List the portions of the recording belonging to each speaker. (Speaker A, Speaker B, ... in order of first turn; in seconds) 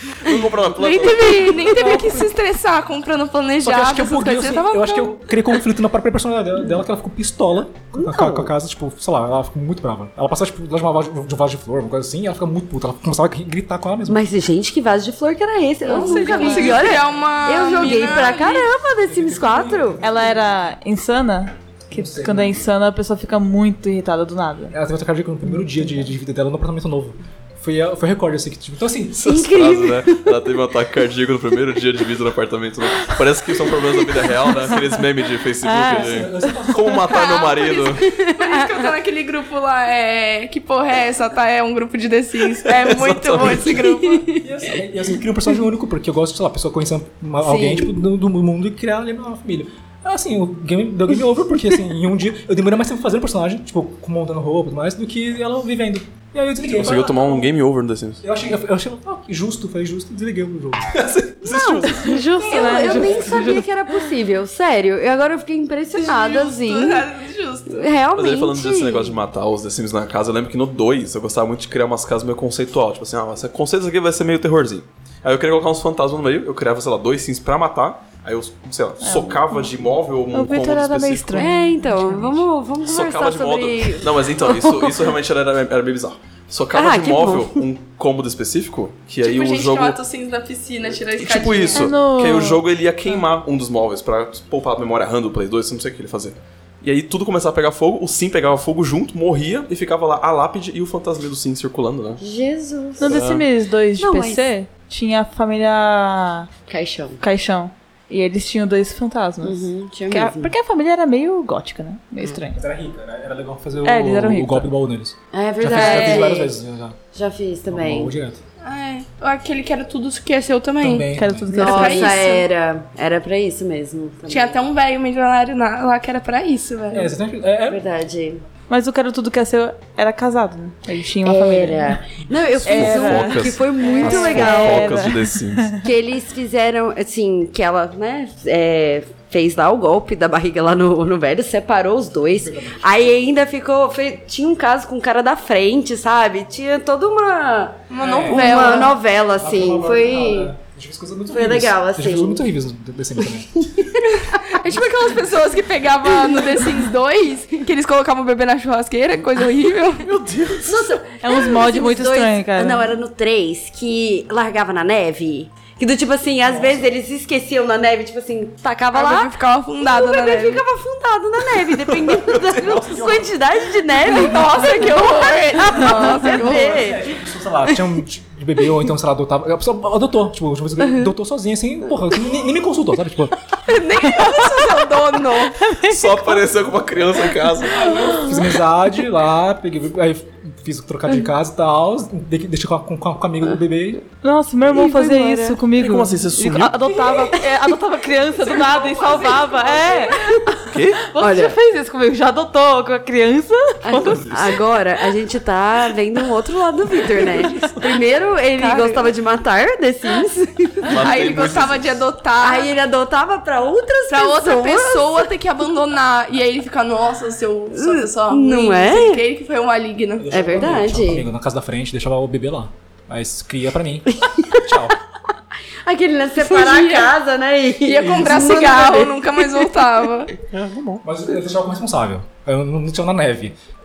Speaker A: 0.2-1.5, 29.2-38.0, 42.6-43.9, 56.7-58.2, 61.0-62.1, 68.2-81.5, 82.8-90.0, 91.2-102.2, 103.0-103.5, 132.5-135.7, 160.0-161.0, 172.2-172.7, 185.9-188.0, 195.8-196.9, 200.7-201.1, 210.9-212.0, 230.5-231.0
Speaker B: 0.3-2.0, 8.0-8.5, 14.1-20.0, 29.2-30.4, 38.1-38.8, 43.7-44.3, 47.4-48.0, 61.5-67.1, 67.7-69.2, 81.3-85.0, 86.7-87.7, 102.2-103.2, 104.0-104.5, 106.7-107.2, 109.4-110.5, 115.3-116.5, 117.1-118.1, 121.5-124.6, 127.7-128.4, 131.2-135.0, 135.8-150.5, 151.3-152.5, 153.6-154.0, 156.1-156.4, 160.7-178.0, 194.7-195.6, 198.9-200.5, 201.2-201.6, 203.8-210.9, 212.4-215.3, 217.7-219.2, 220.3-221.3, 224.2-224.8, 225.8-229.7
Speaker C: 0.8-5.3, 15.9-18.7, 37.1-44.3, 65.9-67.9, 89.2-91.9, 115.6-116.3, 118.6-122.5, 124.3-127.1, 133.8-134.4, 147.9-149.0, 154.1-160.1, 168.9-170.7, 174.1-176.9, 183.7-185.7, 198.5-200.1, 208.6-209.1, 210.9-212.7, 214.1-220.5, 226.4-227.1, 227.8-230.3
Speaker D: 1.8-2.1, 3.6-14.2, 19.0-20.5, 21.9-22.6, 24.7-29.4, 35.9-37.1, 44.4-57.4, 58.2-61.2, 62.5-63.5, 112.5-117.0, 117.7-118.4, 120.8-121.8, 126.9-127.8, 142.3-143.2, 148.0-153.7, 166.4-166.9, 172.4-173.4, 175.6-183.4, 187.7-194.0, 220.2-225.0, 228.1-228.4, 231.0-233.6
Speaker E: 15.8-17.1, 17.7-18.0, 20.0-24.8, 25.5-26.1, 35.6-36.5, 61.5-63.6, 79.0-79.7, 80.3-82.3, 91.7-92.6, 103.0-106.5, 107.2-112.6, 113.8-114.7, 121.1-122.2, 128.7-132.0, 132.7-135.8, 161.2-162.9, 185.6-186.4, 188.0-188.4, 194.2-200.3, 201.1-204.3